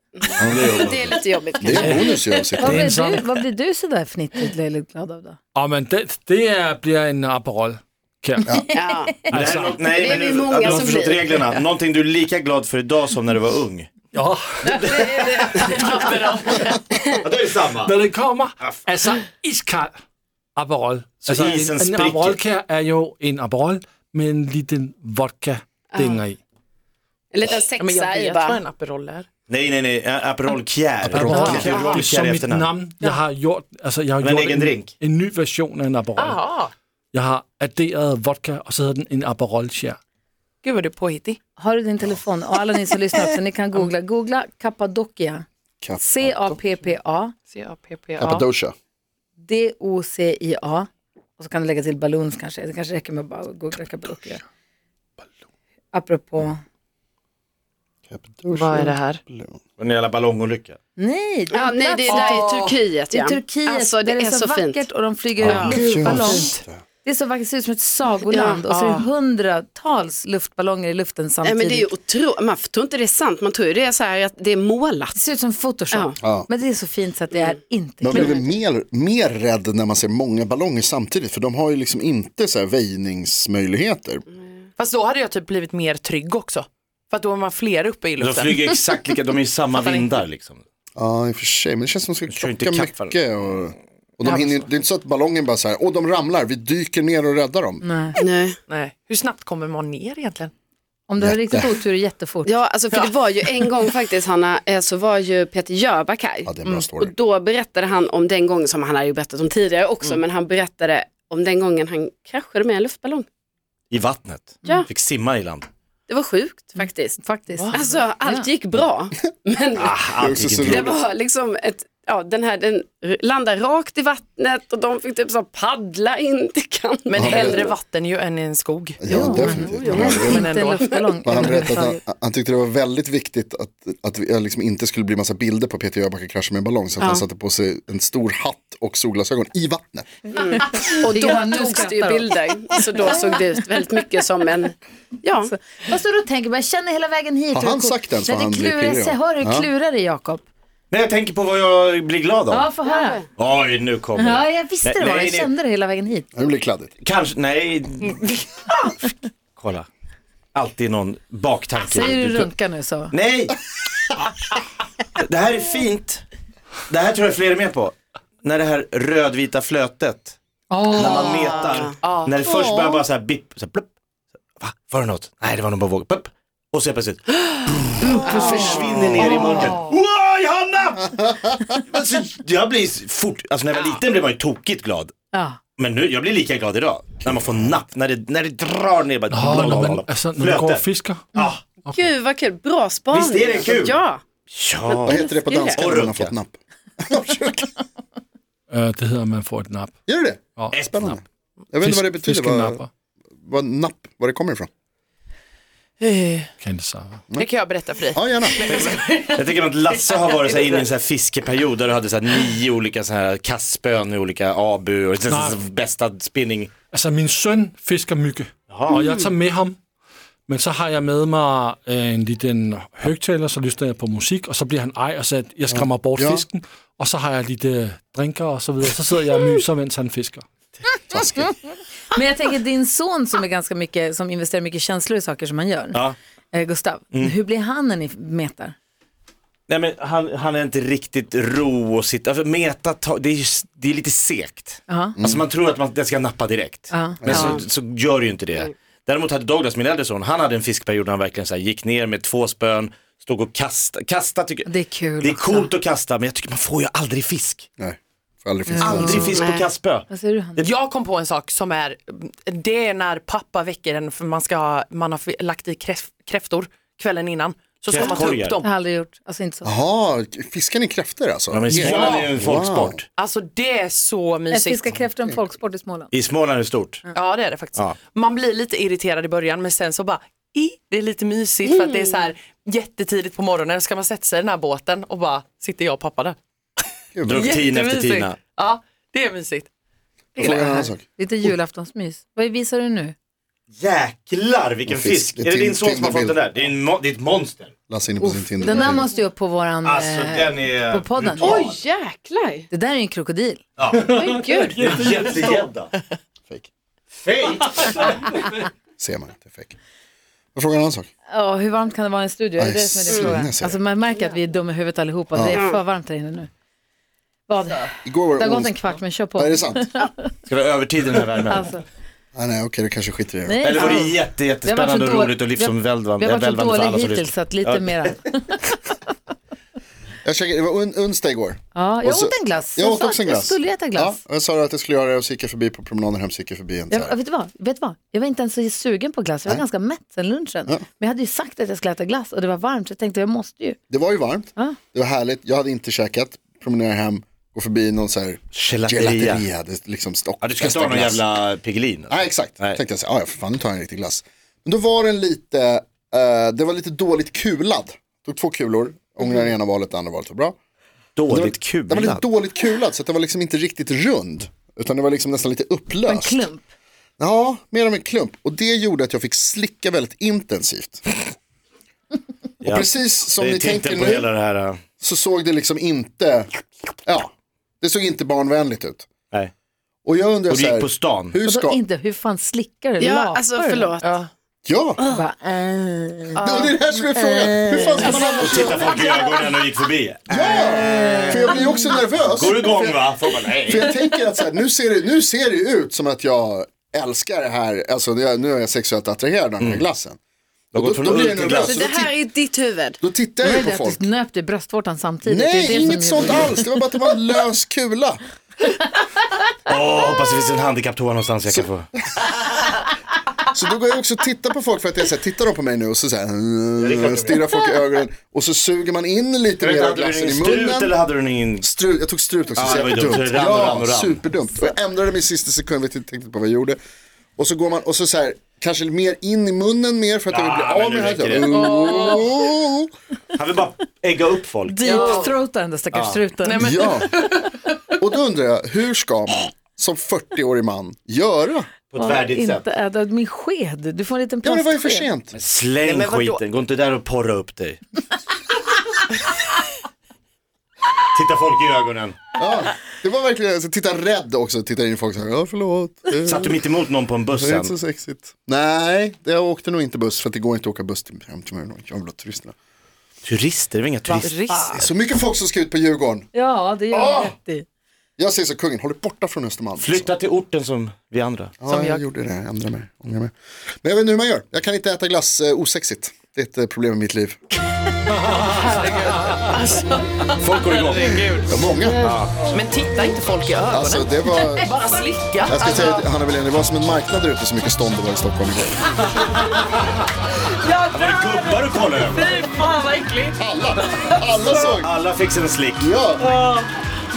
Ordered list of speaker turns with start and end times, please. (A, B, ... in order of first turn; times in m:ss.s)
0:00.2-0:02.2 A
0:00.4-0:00.8 B
0:00.5-0:01.1 C
0:01.6-0:02.9 B
0:01.8-0:02.0 D
0:02.6-0:05.4 E
0:02.6-0:03.2 D
0:05.5-0:08.5 D
0:08.5-0:08.8 E
0:08.7-0:11.4 A
0:09.3-0:09.8 D
0:09.3-0:13.9 C
0:10.6-0:11.3 D
0:14.1-0:15.8 D
0:14.8-0:15.2 E
0:14.9-0:16.8 F
0:17.2-0:18.0 C
0:17.8-0:20.0 D
0:20.6-0:26.4 D
0:21.2-0:22.4 C
0:25.9-0:26.2 A
0:27.3-0:28.6 A
0:27.8-0:29.3 F
0:29.5-0:32.7 C
0:31.0-0:36.4 D
0:31.1-0:31.8 B
0:31.3-0:31.7 F
0:34.2-0:34.9 C
0:36.2-0:36.7 F
0:37.1-0:40.0 D
0:40.6-0:41.4 F
0:41.6-0:45.4 E
0:45.8-0:46.4 B
0:46.0-0:47.3 E
0:46.5-0:46.9 F
0:47.5-0:48.4 F
0:48.2-0:48.7 B
0:49.4-0:54.4 E
0:55.9-0:56.6 E
0:58.1-0:59.6 B
0:58.5-0:59.2 F
0:59.8-1:00.8 C
1:01.0-1:02.5 E
1:01.5-1:04.9 A
1:02.0-1:02.8 F
1:03.1-1:11.9 E
1:05.4-1:06.8 B
1:05.4-1:06.3 A
1:08.3-1:08.6 A
1:08.6-1:09.1 F
1:11.4-1:15.2 A
1:15.1-1:18.5 E
1:16.2-1:16.5 B
1:18.0-1:24.2 B
1:18.1-1:18.4 F
1:24.8-1:28.7 F
1:28.2-1:30.6 C
1:29.7-1:30.1 F
1:31.0-1:37.8 B
1:32.3-1:33.2 C
1:34.3-1:34.6 F
1:37.8-1:38.2 E
1:38.2-1:38.6 A
1:38.7-1:40.5 F
1:41.1-1:42.6 E
1:41.2-1:41.8 B
1:42.4-1:53.2 A
1:42.9-1:43.8 F
1:46.4-1:47.1 B
1:53.9-1:55.7 C
1:56.1-1:57.2 A
1:56.8-1:58.5 E
1:57.7-2:00.0 A
1:59.8-2:01.0 C
2:00.2-2:01.0 B
2:00.6-2:07.8 A
2:07.1-2:10.9 F
2:07.2-2:07.7 B
2:09.0-2:10.5 B
2:09.1-2:12.0 E
2:09.4-2:10.4 A
2:11.2-2:20.2 B
2:17.0-2:17.2 A
2:20.4-2:25.5 A
2:21.1-2:22.3 E
2:23.0-2:23.6 E
2:25.4-2:30.4 E
2:27.5-2:29.7 B
2:30.9-2:32.7 C
2:32.5-2:33.2 E
2:32.9-2:33.2 A
2:33.4-2:35.5 C
2:34.2-2:36.3 E
2:36.3-2:36.9 B
2:37.0-2:38.4 C
2:39.6-2:39.8 C
2:40.5-2:42.5 C
2:41.8-2:43.1 E
2:43.1-2:43.6 C
2:45.2-2:46.2 C
2:46.9-2:50.4 C
2:50.7-2:51.5 E
2:50.9-2:53.9 C
2:50.9-2:51.9 A
2:52.0-2:52.4 F
2:52.4-2:53.0 B
2:54.6-3:05.1 C
2:58.0-2:59.9 E
2:58.2-2:59.6 A
2:59.1-2:59.7 B
3:05.3-3:05.6 E
3:05.8-3:10.8 C
3:07.2-3:07.7 B
3:09.3-3:11.3 D
3:11.3-3:11.6 C
3:11.9-3:14.2 A
3:13.1-3:14.0 C
3:14.5-3:15.2 C
3:14.9-3:15.8 A
3:15.0-3:17.7 B
3:15.7-3:16.3 C
3:18.7-3:20.0 D
3:20.1-3:22.8 B
3:20.7-3:21.2 C
3:21.8-3:22.9 D
3:23.4-3:24.7 B
3:26.0-3:26.5 F
3:26.6-3:27.2 D
3:27.3-3:30.8 F
3:28.1-3:28.8 B
3:28.6-3:36.7 C
3:35.3-3:35.6 D
3:36.9-3:39.8 D
3:38.7-3:39.1 C
3:40.5-3:50.4 D
3:45.7-3:46.4 B
3:51.1-3:51.5 B
3:52.1-3:56.0 E
3:56.5-3:58.7 E
3:59.7-4:14.7 C
4:04.9-4:05.2 E
4:05.2-4:05.4 B
4:06.9-4:07.6 E
4:07.2-4:07.6 B
4:07.3-4:07.6 A
4:14.6-4:15.7 E
4:15.2-4:17.7 C
4:17.8-4:19.3 B
4:18.6-4:19.5 E
4:18.8-4:20.7 C
4:19.3-4:19.6 A
4:20.1-4:20.6 E
4:20.6-4:28.7 F
4:27.9-4:28.6 C
4:28.0-4:29.7 E
4:29.6-4:33.0 B
4:31.5-4:33.0 C
4:31.8-4:32.2 F
4:33.2-4:34.8 F
4:34.5-4:36.1 E
4:35.0-4:35.4 B
4:36.1-4:37.0 C
4:37.1-4:46.4 F
4:41.6-4:42.3 A
4:47.1-4:47.6 B
4:47.3-4:48.4 C
4:47.3-4:49.7 F
4:50.4-4:51.5 B
4:50.4-4:53.1 E
4:53.7-4:57.7 C
4:54.9-4:56.4 B
4:57.9-4:59.1 B
4:58.2-5:01.7 E
4:59.8-5:01.8 C
5:01.4-5:02.6 A
5:02.7-5:03.6 E
5:03.8-5:04.2 C
5:03.9-5:04.8 A
5:04.8-5:05.9 C
5:07.2-5:08.2 C
5:09.0-5:09.8 B
5:10.5-5:11.1 B
5:11.3-5:16.5 E
5:12.6-5:13.8 B
5:13.1-5:13.3 A
5:15.3-5:15.6 B
5:15.5-5:15.8 A
5:17.5-5:20.3 E
5:18.0-5:18.8 B
5:19.3-5:19.9 B
5:20.5-5:21.7 C
5:21.5-5:21.8 E
5:22.3-5:24.0 B
5:23.4-5:28.8 E
5:23.6-5:28.2 C
5:30.2-5:37.1 B
5:31.7-5:34.2 E
5:36.9-5:43.8 E
5:43.9-5:51.2 B
5:48.5-5:49.4 C
5:50.4-5:52.8 C
5:52.1-6:00.5 B
6:01.2-6:02.2 C
6:01.3-6:06.4 B
6:06.0-6:06.7 E
6:07.2-6:11.2 B
6:12.6-6:14.8 C
6:12.6-6:14.3 B
6:15.0-6:16.5 B
6:17.0-6:19.1 B
6:20.0-6:21.8 B
6:20.5-6:21.4 C
6:21.4-6:23.9 E
6:23.0-6:24.2 A
6:24.0-6:24.3 F
6:24.6-6:25.0 B
6:25.1-6:28.7 E
6:26.4-6:28.8 B
6:28.4-6:31.6 C
6:30.3-6:40.2 B
6:30.9-6:31.3 E
6:32.2-6:34.0 C
6:39.6-6:39.8 C
6:40.7-6:41.9 C
6:40.7-6:42.1 B
6:41.5-6:43.0 A
6:43.0-6:44.0 B
6:43.4-6:46.6 E
6:45.2-6:48.2 B
6:49.7-6:51.9 C
6:51.5-6:52.2 B
6:53.5-7:00.9 B
6:56.8-6:57.6 C
6:59.6-7:01.7 C
7:01.6-7:06.8 B
7:02.6-7:04.2 C
7:07.4-7:12.9 B
7:10.3-7:11.6 C
7:11.6-7:12.3 F
7:13.4-7:15.0 C
7:14.8-7:16.9 E
7:14.8-7:15.4 F
7:15.9-7:16.2 C
7:16.4-7:17.6 F
7:16.6-7:17.1 B
7:17.9-7:21.7 B
7:21.9-7:22.6 C
7:22.0-7:25.1 E
7:24.4-7:25.4 B
7:25.3-7:27.8 C
7:25.8-7:26.4 F
7:31.1-7:32.2 C
7:32.4-7:36.6 B
7:36.2-7:37.7 C
7:37.3-7:42.5 B
7:43.2-7:44.4 C
7:44.0-7:44.8 F
7:44.7-7:46.3 B
7:46.3-7:47.6 E
7:46.9-7:47.3 B
7:48.2-7:50.1 B
7:49.8-7:51.6 C
7:51.6-7:57.4 B
7:51.7-7:52.0 F
7:58.4-8:00.8 F
8:00.4-8:02.5 C
8:00.5-8:02.1 B
8:02.5-8:06.0 F
8:03.7-8:04.7 B
8:05.4-8:09.0 B
8:10.6-8:13.4 F
8:10.9-8:12.4 C
8:13.4-8:14.9 B
8:14.6-8:15.9 C
8:15.8-8:16.3 B
8:16.2-8:16.7 F